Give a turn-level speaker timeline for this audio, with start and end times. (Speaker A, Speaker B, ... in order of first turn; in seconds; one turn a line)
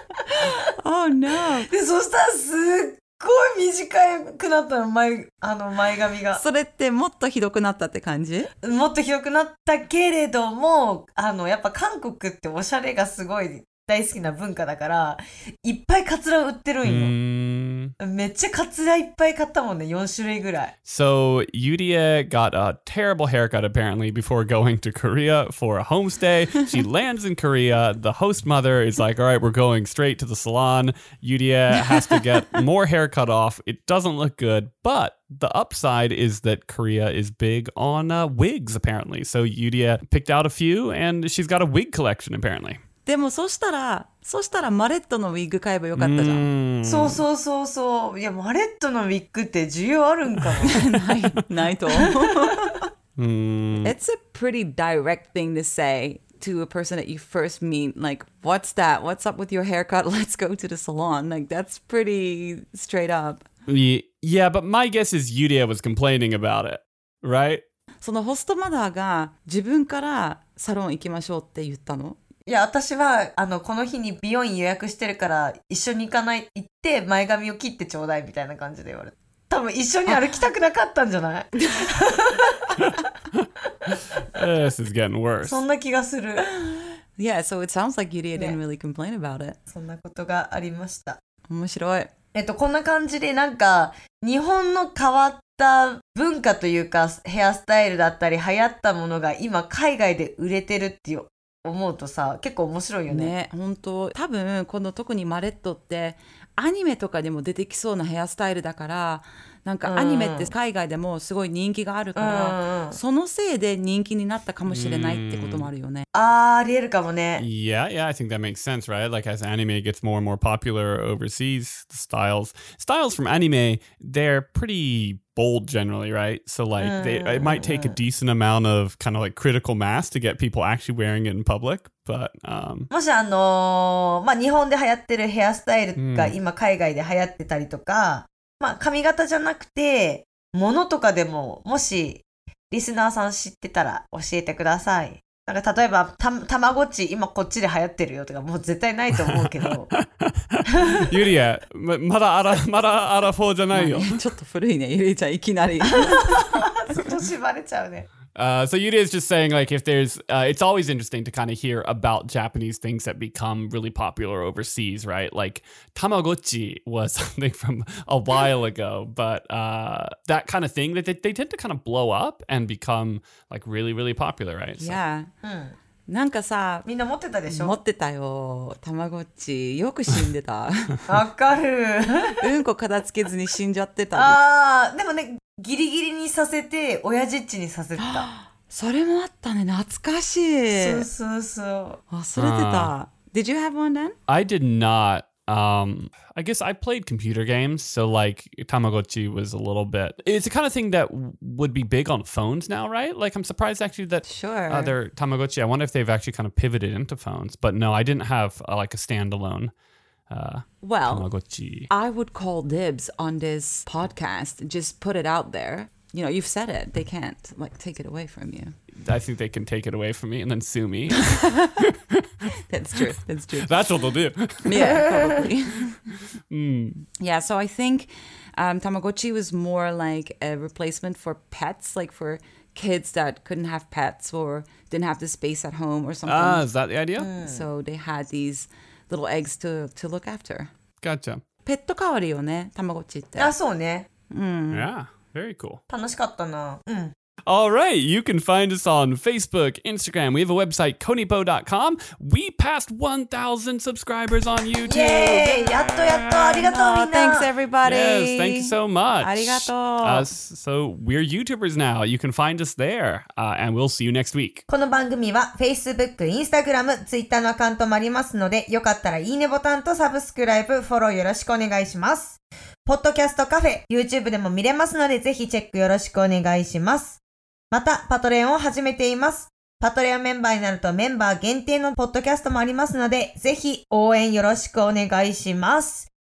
Speaker A: 0.3-0.6
Speaker B: 0.5-1.7
Speaker A: 1.7-6.4
Speaker B: 6.3-8.5
Speaker A: 8.6-17.1
Speaker C: 16.8-17.9
Speaker A: 18.0-20.7
Speaker C: 20.9-42.8
Speaker B: 31.9-32.2
Speaker B: 43.0-46.5
Speaker C: 46.0-47.2
Speaker A: 46.8-50.9
Speaker B: 50.6-52.9
Speaker A: 52.0-52.7
Speaker C: 53.2-53.9
Speaker B: 53.8-63.4
Speaker C: 63.7-67.6
Speaker B: 68.0-72.2
Speaker A: 72.5-82.8
Speaker B: 81.6-82.0
Speaker C: 82.8-85.6
Speaker A: 85.4-86.5
Speaker B: 86.6-89.6
Speaker A: 89.7-91.2
Speaker B: 91.5-92.1
Speaker A: 92.3-103.3
Speaker B: 103.1-116.0
Speaker A: 109.8-110.5
Speaker A: 112.2-113.0
Speaker C: 114.7-115.7
Speaker A: 116.1-117.4
Speaker C: 117.4-132.9
Speaker A: 126.8-128.0
Speaker A: 132.9-149.9
Speaker C: 136.0-136.4
Speaker C: 149.9-154.2
Speaker A: 150.7-151.2
Speaker B: 153.7-156.4
Speaker A: 155.9-158.1
Speaker C: 158.3-175.0
Speaker B: 174.8-175.3
Speaker A: 175.4-175.7
Speaker B: 176.1-176.8
Speaker A: 176.8-177.8
Speaker B: 177.5-181.0
Speaker A: 181.1-182.4
Speaker B: 182.4-184.4
Speaker A: 184.1-188.3
Speaker B: 188.0-191.1
Speaker A: 190.7-192.0
Speaker B: 192.1-194.2
Speaker C: 192.4-192.9
Speaker C: 194.3-209.7
Speaker B: 204.2-204.9
Speaker C: 210.3-211.9
Speaker B: 210.8-211.3
Speaker B: 211.9-218.8
Speaker C: 219.0-222.5
Speaker B: 221.2-221.8
Speaker B: 222.7-223.8
Speaker C: 223.0-225.1
Speaker B: 224.6-226.0
Speaker C: 226.5-227.1
Speaker B: 227.2-236.6
Speaker C: 236.2-237.3
Speaker A: 237.2-237.7
Speaker B: 237.4-240.7
Speaker C: 241.0-241.4
Speaker B: 241.6-243.5
Speaker A: 243.3-244.1
Speaker B: 244.3-244.9
Speaker C: 244.7-245.8
Speaker A: 245.9-247.1
Speaker C: 247.5-256.6
Speaker A: 254.8-257.5
Speaker B: 256.6-260.2
Speaker C: 257.8-264.6
Speaker A: 264.7-277.2
Speaker A: 277.7-286.1